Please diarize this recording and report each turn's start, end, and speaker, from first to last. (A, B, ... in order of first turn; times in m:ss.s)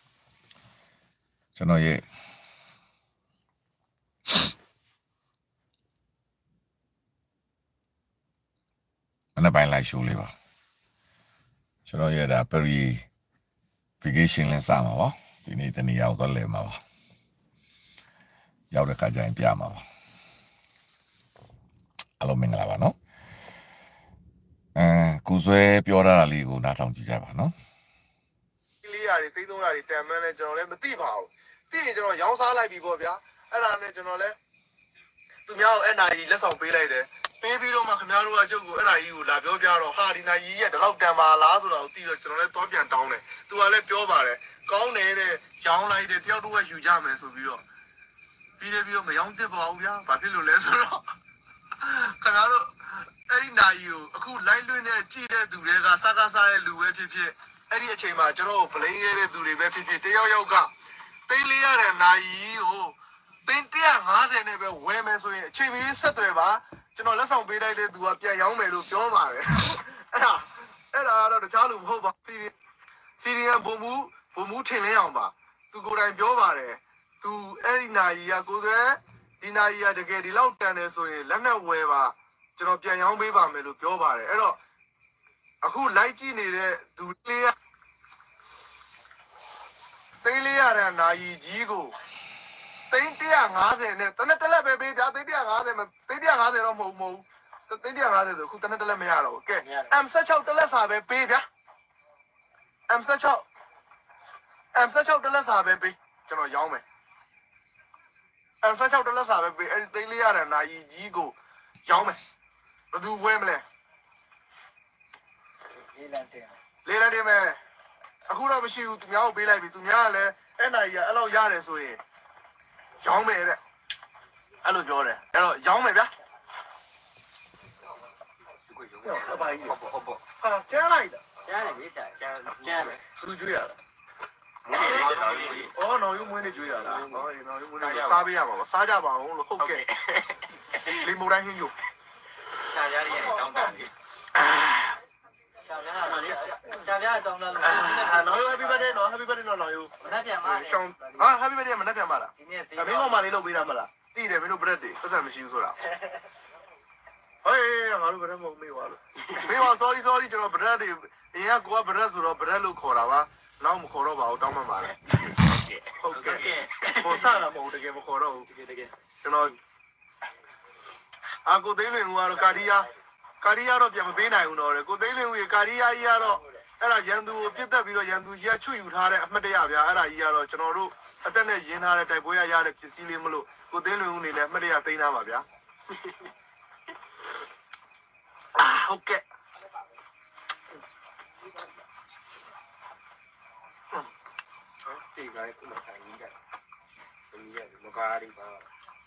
0:01.5-0:02.0 A
0:09.4-0:10.3 A
0:11.9-0:13.0 A
0:14.0-0:16.8 A
0:18.7-0:19.8 A
0:22.2-0:23.0 A
0:24.8-0:27.5 A
0:28.8-0:34.4 B
0:35.4-0:47.6 B
0:48.6-0:51.0 B
0:51.8-1:00.7 B
1:01.3-1:12.5 B
1:13.2-1:24.6 B
1:25.6-1:27.6 B
1:30.2-1:32.0 B
1:32.9-1:41.5 B
1:39.6-1:39.9 C
1:42.9-1:43.4 B
1:44.8-1:46.8 B
1:48.6-1:52.2 B
1:52.9-1:53.6 B
1:55.9-1:56.6 C
1:56.8-1:57.6 B
1:58.3-2:02.0 B
2:03.0-2:03.6 B
2:04.6-2:06.1 B
2:08.7-2:10.2 C
2:09.0-2:09.8 B
2:10.4-2:11.2 B
2:11.4-2:13.0 C
2:12.8-2:13.8 B
2:14.7-2:15.7 C
2:14.7-2:19.8 B
2:16.8-2:17.2 C
2:17.8-2:18.3 C
2:20.8-2:21.7 B
2:22.7-2:23.9 C
2:25.7-2:28.8 C
2:27.6-2:35.8 B
2:30.0-2:31.3 C
2:32.4-2:33.2 C
2:37.4-2:45.0 B
2:39.3-2:39.6 C
2:45.3-2:47.4 C
2:46.0-2:48.5 B
2:48.5-2:48.9 C
2:49.2-2:49.6 B
2:51.4-2:52.9 B
2:53.4-3:05.4 B
3:08.6-3:09.2 B
3:14.8-3:16.3 C
3:17.3-3:18.7 C